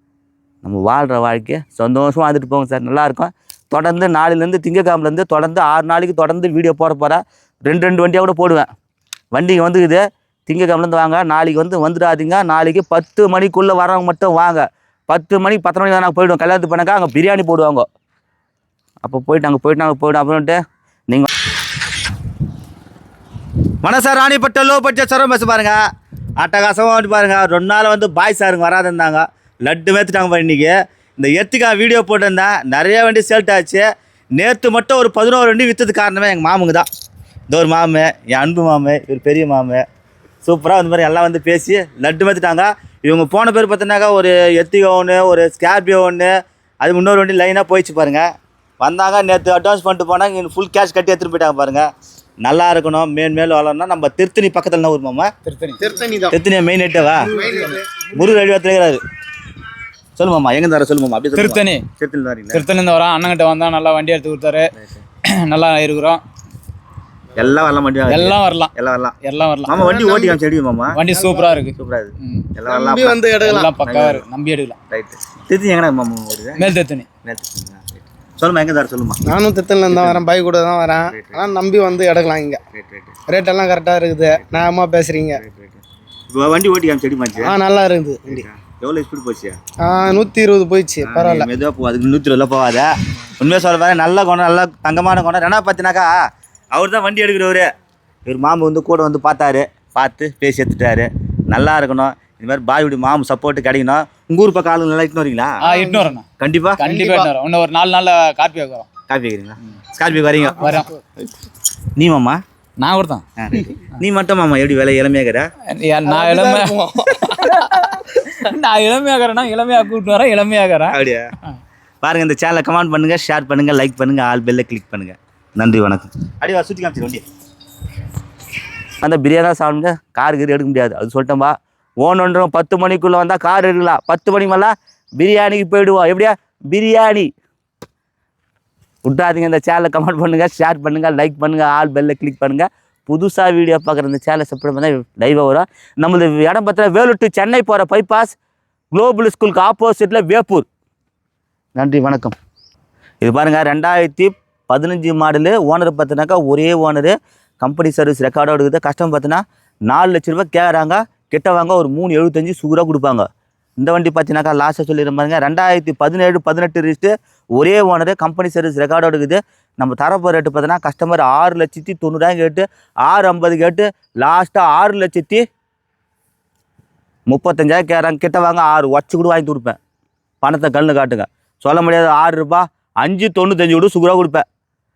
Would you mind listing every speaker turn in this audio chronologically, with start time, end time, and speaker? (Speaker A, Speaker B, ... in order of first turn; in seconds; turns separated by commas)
Speaker A: 0.6-8.7, Speaker A: 9.3-17.9, Speaker A: 19.0-21.3, Speaker A: 23.8-25.8, Speaker A: 26.4-36.9, Speaker A: 37.5-39.8, Speaker A: 40.4-48.3, Speaker A: 48.8-51.9, Speaker A: 52.4-55.3, Speaker B: 55.5-55.8, Speaker C: 55.8-56.4, Speaker A: 56.3-57.3, Speaker C: 57.2-57.8, Speaker A: 58.1-59.0, Speaker A: 60.2-62.6, Speaker B: 61.4-61.9, Speaker B: 62.5-64.7, Speaker A: 64.8-65.0, Speaker B: 65.4-66.2, Speaker A: 67.3-71.0, Speaker B: 68.1-68.7, Speaker B: 69.2-69.8, Speaker C: 69.7-70.4, Speaker B: 70.9-72.5, Speaker C: 71.1-71.5, Speaker A: 71.7-74.2, Speaker C: 72.7-73.7, Speaker B: 73.4-74.8, Speaker A: 74.9-76.7, Speaker B: 76.6-77.1, Speaker A: 77.2-79.2, Speaker C: 79.3-82.6, Speaker A: 79.9-80.2, Speaker A: 81.1-81.4, Speaker A: 82.7-83.2, Speaker C: 83.3-85.4, Speaker A: 85.4-87.5, Speaker C: 87.4-88.5, Speaker A: 88.3-89.6, Speaker C: 89.8-91.5, Speaker A: 91.0-96.1, Speaker A: 96.7-97.7, Speaker A: 98.3-105.6, Speaker B: 105.6-106.3, Speaker C: 105.7-106.2, Speaker A: 106.4-106.8, Speaker B: 106.8-108.9, Speaker C: 106.8-107.3, Speaker A: 109.1-110.8, Speaker B: 110.6-110.9, Speaker A: 112.0-112.4, Speaker B: 112.8-113.2, Speaker A: 113.4-115.5, Speaker B: 115.7-121.0, Speaker C: 116.1-117.5, Speaker A: 120.9-121.3, Speaker A: 122.0-127.2, Speaker A: 129.0-137.3, Speaker A: 139.1-148.3, Speaker A: 148.9-150.7, Speaker A: 151.8-152.3, Speaker A: 153.2-163.3, Speaker A: 163.8-175.4, Speaker A: 177.3-179.8, Speaker A: 180.4-184.4